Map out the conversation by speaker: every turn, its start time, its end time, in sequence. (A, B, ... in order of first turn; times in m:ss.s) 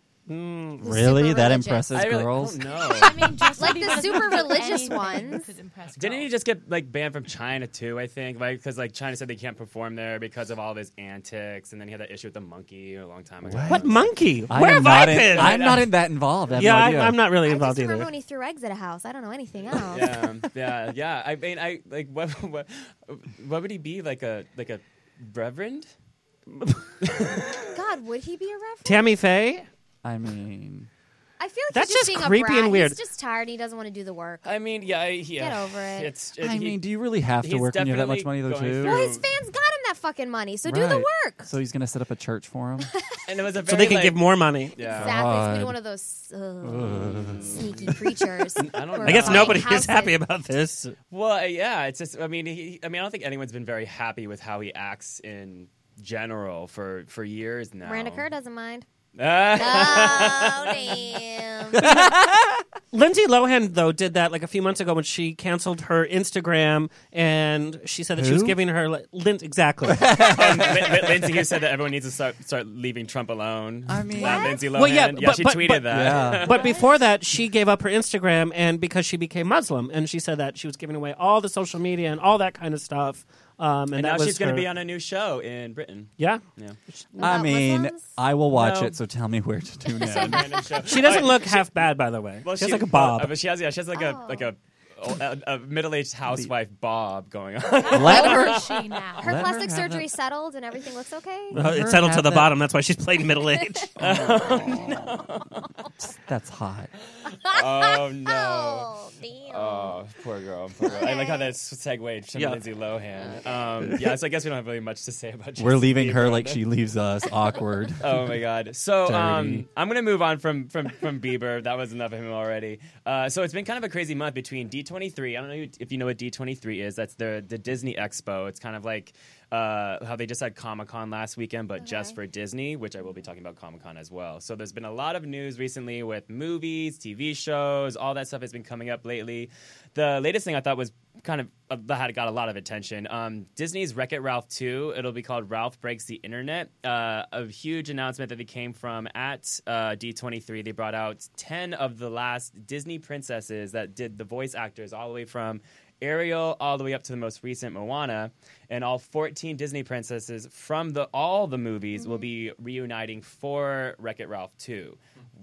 0:00.3-0:01.1 A
0:00.8-0:02.1 B
0:00.8-0:02.6 C
0:01.9-0:04.0 D
0:02.7-0:06.3 E
0:03.6-0:05.5 B
0:05.9-0:14.1 D
0:13.4-0:17.2 C
0:13.7-0:15.7 A
0:15.1-0:16.0 D
0:16.6-0:18.1 A
0:17.5-0:20.2 B
0:19.9-0:25.9 D
0:27.0-0:27.7 D
0:27.7-0:29.0 B
0:28.8-0:29.7 A
0:30.0-0:30.9 C
0:31.4-0:34.5 B
0:31.7-0:33.0 A
0:34.4-0:36.8 D
0:35.4-0:36.1 B
0:36.4-0:39.1 C
0:37.4-0:39.3 D
0:38.8-0:41.5 B
0:40.6-0:42.9 C
0:43.3-0:44.2 D
0:43.7-0:44.8 A
0:44.8-0:45.2 D
0:44.9-0:50.2 B
0:44.9-0:45.8 C
0:46.6-0:47.6 C
0:47.1-0:47.9 D
0:48.6-0:49.6 D
0:49.0-0:51.0 A
0:51.1-0:58.3 D
0:57.8-0:58.9 B
0:59.2-1:01.2 D
0:59.6-1:02.0 B
1:01.8-1:02.2 C
1:02.9-1:10.4 A
1:08.2-1:08.6 C
1:09.9-1:11.0 C
1:10.3-1:16.8 D
1:13.9-1:14.6 C
1:14.2-1:14.6 B
1:14.8-1:24.7 A
1:15.9-1:16.5 C
1:16.5-1:16.9 B
1:24.0-1:26.8 D
1:27.2-1:28.1 B
1:27.2-1:30.6 C
1:28.5-1:29.0 D
1:30.0-1:30.5 B
1:30.1-1:31.7 D
1:30.9-1:33.3 A
1:32.4-1:38.7 D
1:34.0-1:34.5 B
1:37.9-1:39.3 E
1:37.9-1:40.1 C
1:38.2-1:38.5 B
1:39.2-1:41.6 B
1:41.5-1:42.5 C
1:41.6-1:43.9 A
1:44.0-1:45.2 C
1:44.0-1:45.4 D
1:46.0-1:46.9 C
1:47.4-1:48.9 D
1:47.5-1:50.0 B
1:49.5-1:56.6 D
1:50.8-1:51.5 B
1:55.6-1:58.4 C
1:58.0-2:45.0 D
1:59.0-1:59.7 C
2:11.8-2:12.2 B
2:42.0-2:42.3 B